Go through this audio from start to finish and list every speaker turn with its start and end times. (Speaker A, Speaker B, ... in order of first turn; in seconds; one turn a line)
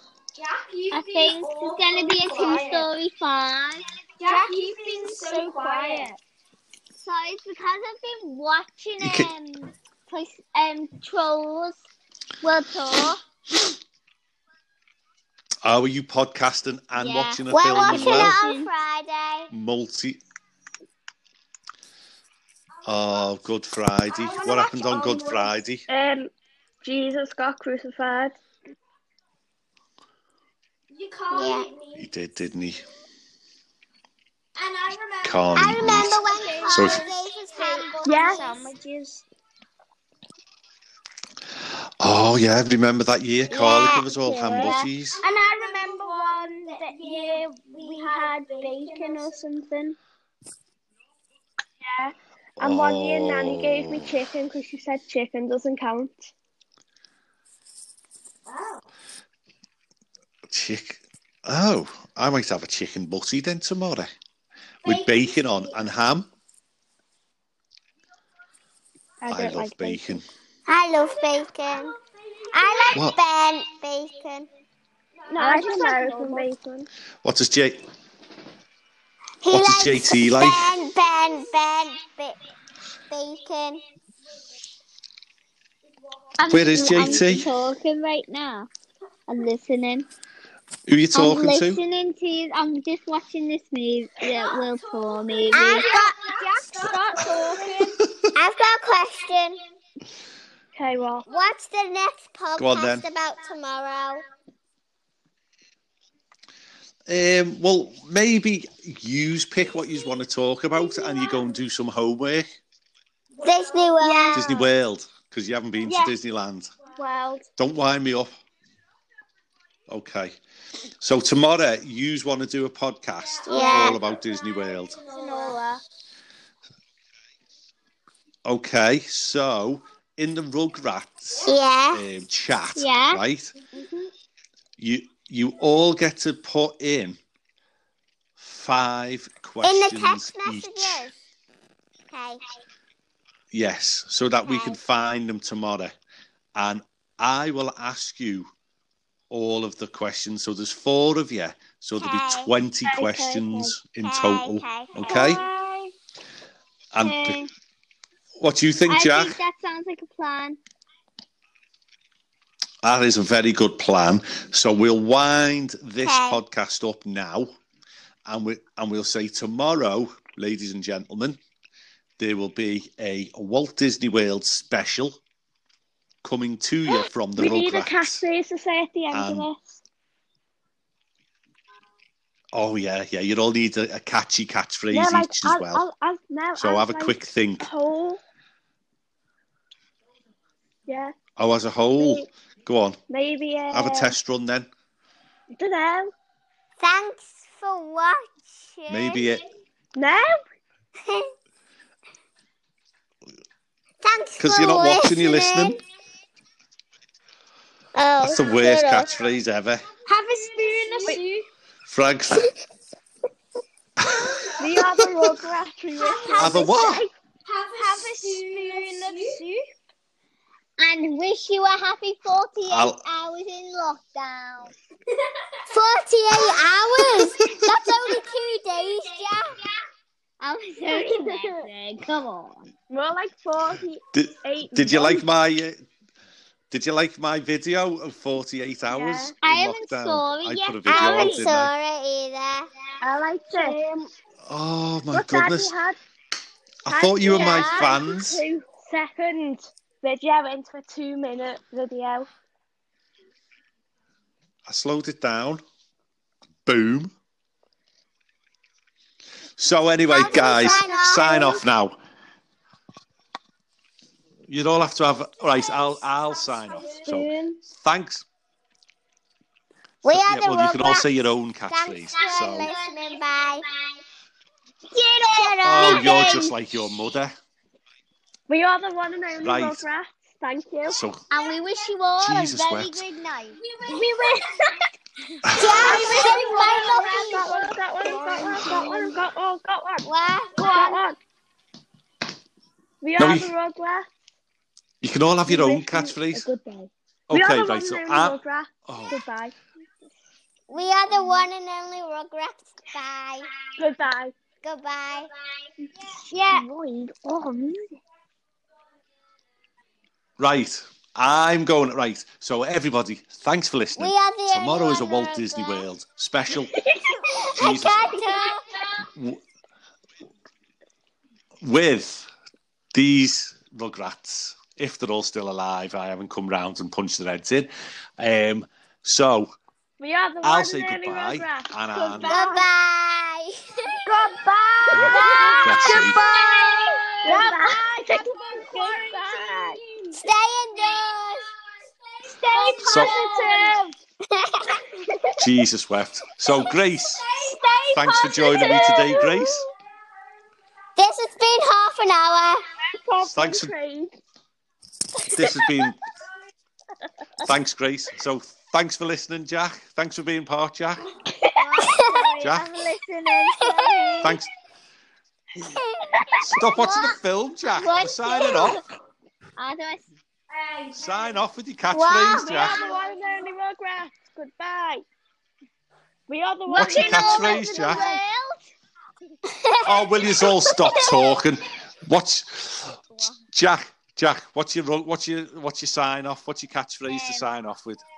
Speaker A: 0.4-2.9
Speaker B: 0.9-6.2
Speaker A: 4.2-6.1
Speaker B: 7.0-11.8
Speaker C: 9.0-9.3
Speaker B: 12.4-13.2
Speaker C: 15.6-18.4
Speaker B: 17.0-18.7
Speaker D: 17.5-19.5
Speaker C: 19.5-20.2
Speaker C: 22.9-25.9
Speaker A: 24.1-25.5
Speaker E: 25.9-26.3
Speaker E: 26.8-28.4
Speaker A: 30.9-32.1
Speaker D: 31.3-31.7
Speaker C: 32.0-32.8
Speaker A: 34.6-39.3
Speaker C: 35.2-37.1
Speaker D: 35.6-38.2
Speaker E: 38.0-38.5
Speaker B: 38.2-38.6
Speaker C: 42.0-45.2
Speaker D: 43.5-44.1
Speaker A: 43.8-50.0
Speaker B: 44.2-44.9
Speaker E: 51.8-56.3
Speaker C: 52.6-54.2
Speaker A: 58.5-58.8
Speaker C: 60.5-64.1
Speaker C: 64.8-66.3
Speaker A: 64.8-65.7
Speaker E: 69.2-70.2
Speaker C: 69.3-70.2
Speaker D: 70.7-72.0
Speaker A: 71.7-73.0
Speaker D: 72.5-74.5
Speaker A: 75.2-76.4
Speaker E: 75.3-76.9
Speaker B: 75.5-76.4
Speaker C: 77.2-77.8
Speaker D: 79.4-82.4
Speaker C: 79.5-80.8
Speaker D: 83.1-83.8
Speaker B: 86.4-88.7
Speaker C: 86.5-87.5
Speaker E: 86.8-87.2
Speaker B: 89.3-90.1
Speaker C: 90.9-91.8
Speaker B: 91.1-95.9
Speaker A: 94.4-94.6
Speaker A: 95.4-98.1
Speaker D: 95.5-96.1
Speaker D: 98.3-99.6
Speaker E: 100.8-101.3
Speaker D: 101.3-104.2
Speaker C: 102.6-103.0
Speaker C: 107.1-112.5
Speaker A: 110.9-111.2
Speaker D: 113.4-114.5
Speaker A: 114.0-114.5
Speaker C: 114.3-116.7
Speaker A: 115.9-116.2
Speaker A: 116.9-117.5
Speaker C: 117.6-118.3
Speaker C: 119.9-120.4
Speaker C: 121.0-125.1
Speaker D: 123.5-124.0
Speaker A: 123.5-124.1
Speaker A: 124.9-125.8
Speaker C: 128.4-133.5
Speaker D: 131.4-132.1
Speaker B: 132.8-133.2
Speaker C: 134.8-137.2
Speaker C: 138.4-141.1
Speaker D: 139.6-141.2
Speaker D: 142.1-142.4
Speaker C: 143.5-145.9
Speaker D: 144.5-144.8
Speaker C: 146.6-148.5
Speaker C: 149.3-155.4
Speaker D: 152.0-152.5
Speaker E: 152.8-153.8
Speaker D: 154.0-155.4
Speaker A: 155.1-155.6
Speaker B: 155.1-155.8
Speaker C: 156.9-157.4
Speaker B: 157.0-157.5
Speaker C: 158.4-159.4
Speaker B: 158.9-160.6
Speaker C: 162.8-167.5
Speaker D: 166.0-166.4
Speaker C: 168.3-171.4
Speaker C: 172.2-175.2
Speaker C: 176.2-178.2
Speaker E: 176.9-179.8
Speaker C: 179.1-179.5
Speaker C: 182.5-185.8
Speaker E: 184.9-188.2
Speaker C: 186.6-187.7
Speaker E: 190.9-191.2
Speaker C: 191.4-193.0
Speaker E: 192.0-192.2
Speaker E: 193.1-194.2
Speaker C: 193.7-194.7
Speaker E: 195.5-196.1
Speaker D: 196.8-199.4
Speaker C: 198.9-199.4
Speaker E: 200.0-200.4
Speaker D: 201.1-201.3
Speaker D: 204.0-205.8
Speaker C: 204.4-205.8
Speaker D: 207.9-209.1
Speaker C: 208.2-209.8
Speaker A: 210.1-211.5
Speaker C: 211.9-212.5
Speaker C: 214.0-214.3
Speaker E: 214.6-217.1
Speaker A: 216.0-216.8
Speaker C: 216.4-217.1
Speaker A: 217.4-219.6
Speaker B: 218.6-219.2
Speaker B: 220.8-224.7
Speaker C: 222.7-223.0
Speaker D: 225.7-229.6
Speaker C: 227.4-227.7
Speaker B: 230.4-232.7
Speaker E: 230.9-231.7
Speaker E: 232.9-235.3
Speaker C: 234.1-235.8
Speaker C: 236.7-241.7
Speaker E: 238.9-239.3
Speaker B: 239.4-241.4
Speaker D: 240.9-242.7
Speaker E: 243.0-243.8
Speaker A: 243.5-243.8
Speaker C: 244.5-245.8
Speaker E: 245.1-246.0
Speaker C: 246.9-248.4
Speaker E: 246.9-252.3
Speaker B: 247.3-247.9
Speaker C: 254.7-255.6
Speaker C: 256.7-257.1
Speaker C: 259.6-262.0
Speaker D: 260.1-261.6
Speaker A: 260.6-261.3
Speaker C: 264.5-268.3
Speaker A: 266.4-267.6
Speaker D: 270.0-271.1
Speaker C: 270.0-272.7
Speaker D: 271.7-273.7
Speaker B: 272.2-273.4
Speaker B: 274.9-276.6
Speaker D: 275.3-276.4
Speaker C: 275.6-277.4
Speaker E: 278.5-281.0
Speaker C: 279.4-279.9
Speaker C: 280.9-281.2
Speaker B: 281.3-284.3
Speaker C: 282.2-283.0
Speaker A: 283.6-284.7
Speaker C: 285.5-285.8
Speaker A: 285.6-289.1
Speaker D: 285.6-287.6
Speaker B: 285.7-287.3
Speaker E: 285.8-291.2
Speaker B: 288.0-289.1
Speaker D: 290.1-290.7
Speaker B: 290.6-291.0
Speaker A: 290.6-291.0
Speaker E: 293.0-294.1
Speaker C: 293.2-293.5
Speaker C: 295.0-296.5
Speaker E: 295.5-299.6
Speaker C: 297.3-299.2
Speaker D: 300.7-303.6
Speaker E: 303.8-304.4
Speaker D: 304.6-305.3
Speaker B: 306.3-306.6
Speaker E: 306.5-308.0
Speaker C: 310.4-316.8
Speaker D: 314.0-315.9
Speaker D: 317.3-318.9
Speaker C: 317.6-318.2
Speaker C: 319.2-319.4
Speaker C: 321.6-322.3
Speaker C: 322.9-329.5
Speaker E: 330.0-332.6
Speaker C: 330.4-332.4
Speaker D: 332.3-333.9
Speaker A: 334.1-336.1
Speaker E: 335.0-335.6
Speaker D: 335.0-337.4
Speaker B: 335.1-337.5
Speaker C: 335.6-336.2
Speaker E: 337.2-339.8
Speaker A: 337.2-340.2
Speaker D: 340.2-341.5
Speaker A: 342.2-343.8
Speaker E: 342.6-343.9
Speaker C: 342.8-343.2
Speaker D: 344.4-344.8
Speaker C: 345.4-347.3
Speaker A: 347.1-349.3
Speaker C: 347.9-349.7
Speaker D: 351.0-352.6
Speaker E: 352.9-354.2
Speaker C: 353.3-353.7
Speaker C: 355.3-356.0
Speaker C: 357.4-361.0
Speaker D: 361.6-362.5
Speaker B: 361.8-364.4
Speaker C: 362.4-362.7
Speaker D: 363.6-364.2
Speaker C: 364.2-364.5
Speaker C: 366.4-368.8
Speaker B: 366.8-367.1
Speaker B: 367.7-368.8
Speaker B: 369.6-370.1
Speaker A: 370.5-371.4
Speaker C: 370.9-372.8
Speaker D: 371.9-372.7
Speaker E: 372.2-375.0
Speaker A: 372.6-373.1
Speaker E: 376.3-378.1
Speaker B: 376.7-378.6
Speaker C: 376.8-378.1
Speaker D: 379.5-381.1
Speaker C: 379.8-383.0
Speaker C: 383.5-388.0
Speaker B: 387.1-387.5